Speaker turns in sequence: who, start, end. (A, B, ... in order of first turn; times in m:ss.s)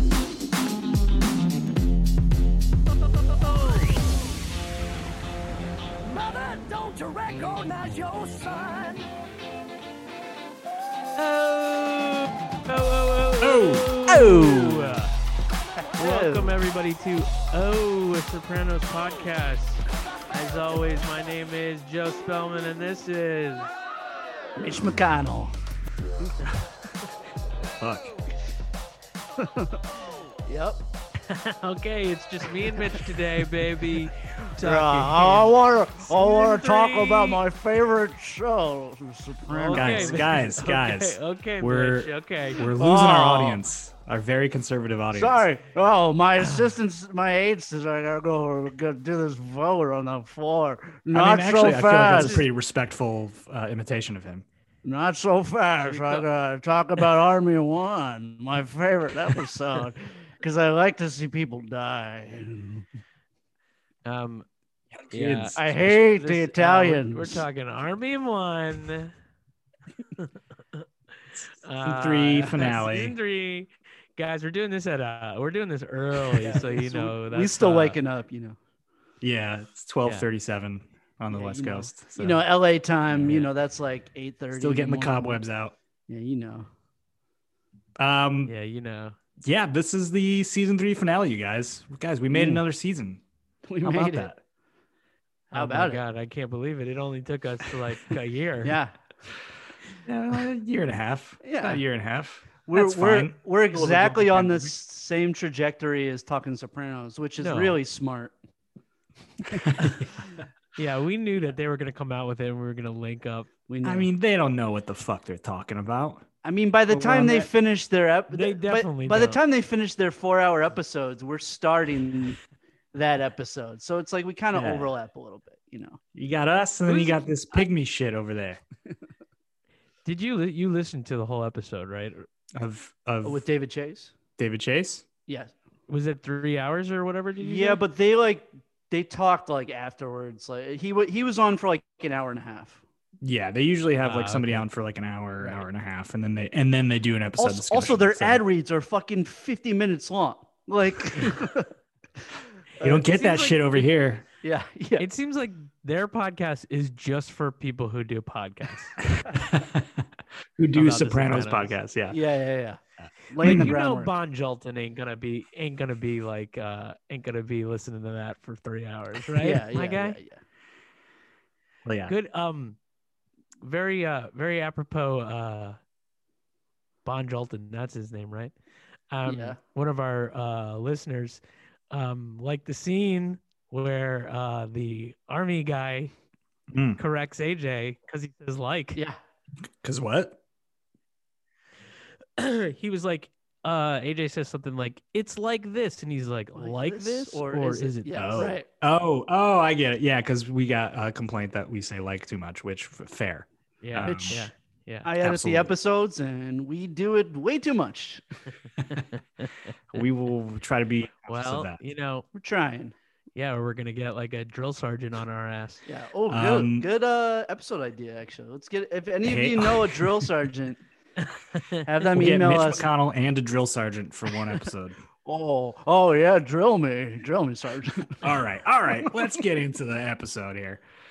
0:06.1-0:09.0 A
0:11.2-0:15.1 B
0:13.4-0:14.3 C
0:14.1-0:15.0 D
0:15.8-0:16.6 D
0:16.0-0:23.8 B
0:24.6-0:25.6 D
0:27.8-0:28.1 C
0:29.4-0:29.8 D
0:30.4-0:30.8 D
0:31.2-0:37.4 B
0:34.6-0:40.3 D
0:39.5-0:42.7 B
0:39.7-0:45.4 C
0:42.7-0:43.6 D
0:45.1-0:52.5 D
0:46.4-0:46.7 B
0:51.1-0:54.4 C
0:52.1-0:52.4 B
0:54.8-1:02.9 D
0:55.8-0:56.2 B
1:04.0-1:04.5 B
1:05.0-1:05.6 C
1:05.1-1:09.1 B
1:05.6-1:07.4 D
1:10.2-1:10.8 B
1:11.4-1:13.2 C
1:11.6-1:18.0 B
1:16.4-1:18.6 D
1:19.2-1:22.4 C
1:21.3-1:25.4 D
1:23.1-1:23.4 C
1:24.5-1:25.8 C
1:26.1-1:26.7 D
1:28.0-1:28.5 C
1:28.5-1:29.2 B
1:29.4-1:33.2 C
1:32.3-1:32.6 D
1:33.7-1:34.3 D
1:33.8-1:34.4 C
1:35.5-1:36.0 D
1:35.5-1:38.8 B
1:38.6-1:39.0 D
1:40.1-1:44.7 C
1:41.4-1:41.8 D
1:42.7-1:48.3 D
1:47.4-1:47.8 B
1:49.4-1:50.2 D
1:49.6-1:50.2 C
1:50.7-1:53.5 B
1:53.7-1:54.1 D
1:53.8-1:56.2 C
1:56.4-2:02.4 D
1:56.9-1:57.5 C
1:58.3-1:59.4 B
2:02.9-2:06.0 D
2:04.5-2:04.9 C
2:06.2-2:08.6 C
2:06.9-2:07.6 D
2:10.0-2:12.3 B
2:12.6-2:13.5 C
2:13.2-2:14.1 D
2:14.4-2:15.1 C
2:15.3-2:15.5 D
2:15.9-2:17.8 B
2:17.4-2:22.8 D
2:23.2-2:28.4 C
2:24.0-2:24.7 B
2:27.4-2:31.7 D
2:32.8-2:33.4 D
2:32.8-2:34.2 C
2:33.1-2:33.9 B
2:34.4-2:35.1 D
2:35.0-2:39.1 B
2:39.1-2:42.2 C
2:40.7-2:41.8 B
2:42.1-2:44.1 D
2:43.0-2:43.7 C
2:43.4-2:50.2 B
2:49.4-2:50.4 D
2:51.8-2:52.2 C
2:52.1-2:52.8 B
2:53.6-2:55.8 B
2:57.0-2:58.5 B
2:59.1-3:06.1 B
2:59.3-2:59.6 D
3:06.7-3:07.0 C
3:07.0-3:09.0 B
3:09.8-3:10.4 C
3:12.4-3:18.6 B
3:16.6-3:18.7 D
3:18.2-3:24.4 C
3:23.8-3:25.1 B
3:24.0-3:24.5 D
3:25.0-3:28.2 D
3:25.2-3:25.7 C
3:29.9-3:31.8 C
3:31.3-3:32.3 B
3:32.3-3:33.0 D
3:33.4-3:35.8 B
3:35.9-3:40.8 D
3:36.3-3:36.9 C
3:39.2-3:40.3 C
3:41.8-3:42.9 D
3:42.1-3:45.0 C
3:45.2-3:48.3 D
3:48.2-3:50.8 C
3:48.9-3:49.3 D